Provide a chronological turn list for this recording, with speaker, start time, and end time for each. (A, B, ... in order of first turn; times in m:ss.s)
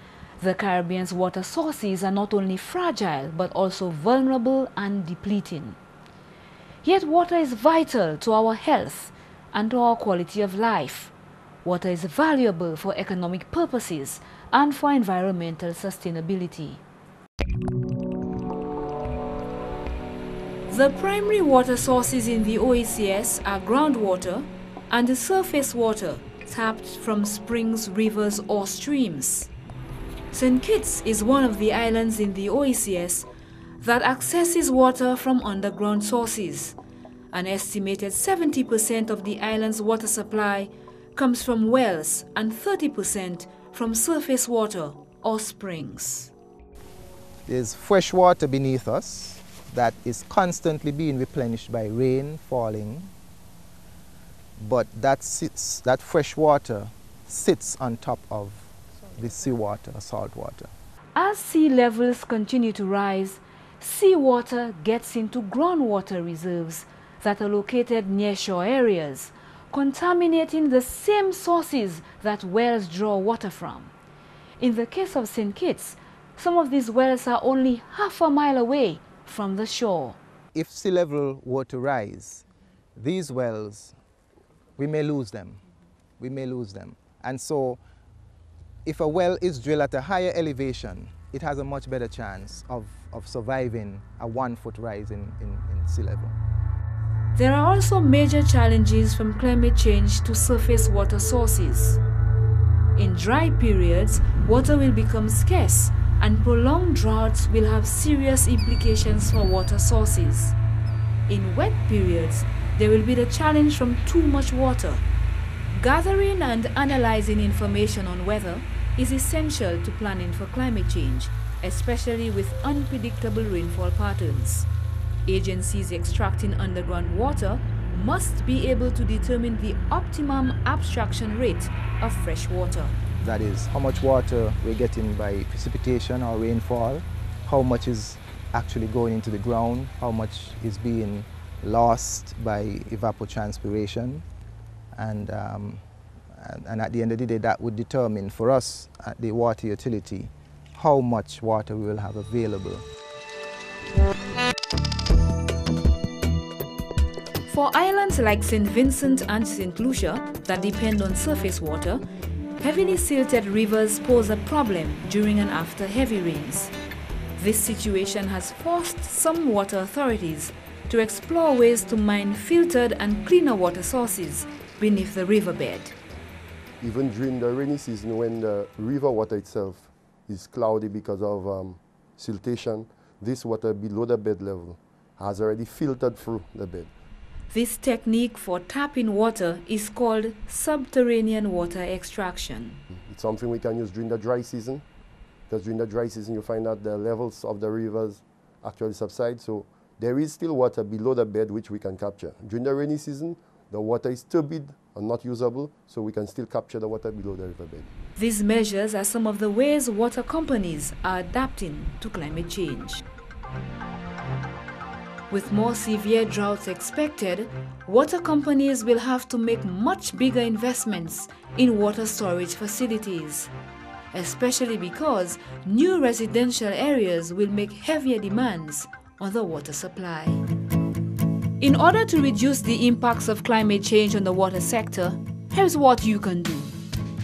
0:00.4-0:05.8 A
0:06.8-0:11.1 A
0:11.6-0:16.8 A
0:20.7-0:29.5 A
0:30.3-0:33.3 A
0:33.8-0:36.8 A
0:37.3-0:46.3 A
0:47.5-0:53.1 B
0:54.6-1:00.7 B
1:01.2-1:13.9 A
1:14.6-1:20.2 A
1:20.5-1:22.4 B
1:23.0-1:24.0 B
1:24.8-1:25.6 B
1:26.2-1:27.8 B
1:28.8-1:36.4 B
1:37.4-1:42.0 A
1:43.0-1:50.6 A
1:51.3-1:55.0 A
1:55.7-2:04.7 A
2:05.3-2:12.9 A
2:13.2-2:24.2 B
2:25.0-2:25.8 B
2:26.3-2:32.8 B
2:37.5-2:42.1 A
2:42.6-2:46.7 A
2:47.4-2:56.0 A
2:56.8-3:06.9 C
3:07.5-3:12.8 A
3:13.1-3:14.8 C
3:15.5-3:27.9 C
3:28.2-3:33.0 A
3:35.3-3:43.5 A
3:44.1-3:50.4 A
3:51.6-3:56.7 A